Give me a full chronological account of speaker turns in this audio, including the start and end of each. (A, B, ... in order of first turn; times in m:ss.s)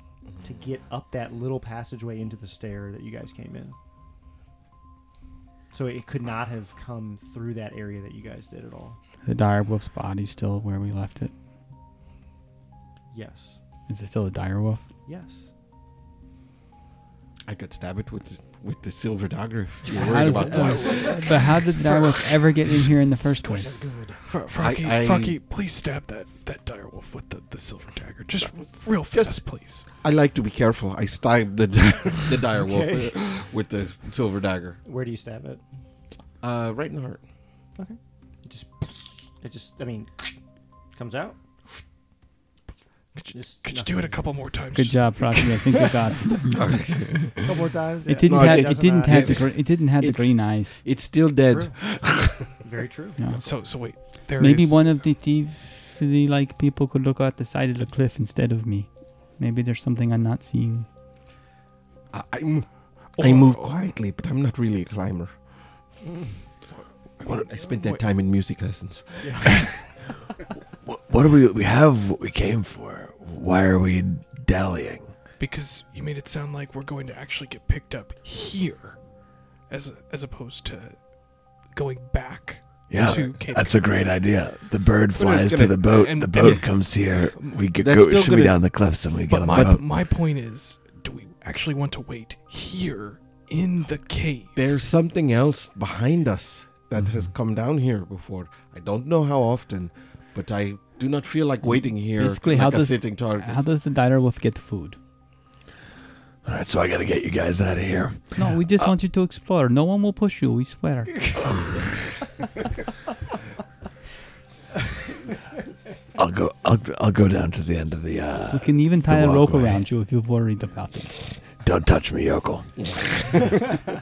0:00.4-0:03.8 A
0:05.7-0:09.0 A
0:09.2-0:11.3 B
0:13.1-0:13.6 A
0:13.9-0:14.8 B
0:15.0-0:15.4 A
0:17.4-0:21.2 C
0:19.9-0:23.9 B
0:20.2-0:21.2 A
0:20.4-0:21.3 D
0:23.4-0:24.2 A
0:24.2-0:29.9 D
0:24.6-0:25.4 C
0:29.0-0:34.8 C
0:32.6-0:33.2 A
0:34.8-0:35.6 A
0:36.4-0:37.2 C
0:37.8-0:40.4 A
0:40.9-0:41.4 A
0:43.1-0:45.8 D
0:43.3-0:44.3 A
0:44.7-0:46.7 B
0:46.5-0:47.1 C
0:47.4-0:49.5 A
0:48.1-0:50.8 B
0:48.2-0:52.5 C
0:51.5-0:51.8 A
0:52.6-0:53.4 A
0:53.2-0:53.4 B
0:53.4-0:54.8 D
0:54.4-1:00.9 B
1:02.1-1:05.3 C
1:03.2-1:03.8 D
1:06.0-1:06.3 A
1:07.2-1:08.0 D
1:07.2-1:09.7 C
1:09.2-1:09.7 A
1:10.8-1:15.1 E
1:15.4-1:19.0 D
1:19.7-1:21.0 D
1:21.7-1:23.8 D
1:22.9-1:29.8 E
1:25.1-1:26.5 C
1:25.9-1:27.5 D
1:27.8-1:28.6 C
1:29.3-1:34.7 D
1:29.5-1:29.8 C
1:34.5-1:43.6 C
1:41.6-1:45.0 B
1:46.4-1:48.5 E
1:48.4-1:51.3 B
1:56.1-1:59.8 E
1:58.5-2:01.2 B
2:01.6-2:03.7 E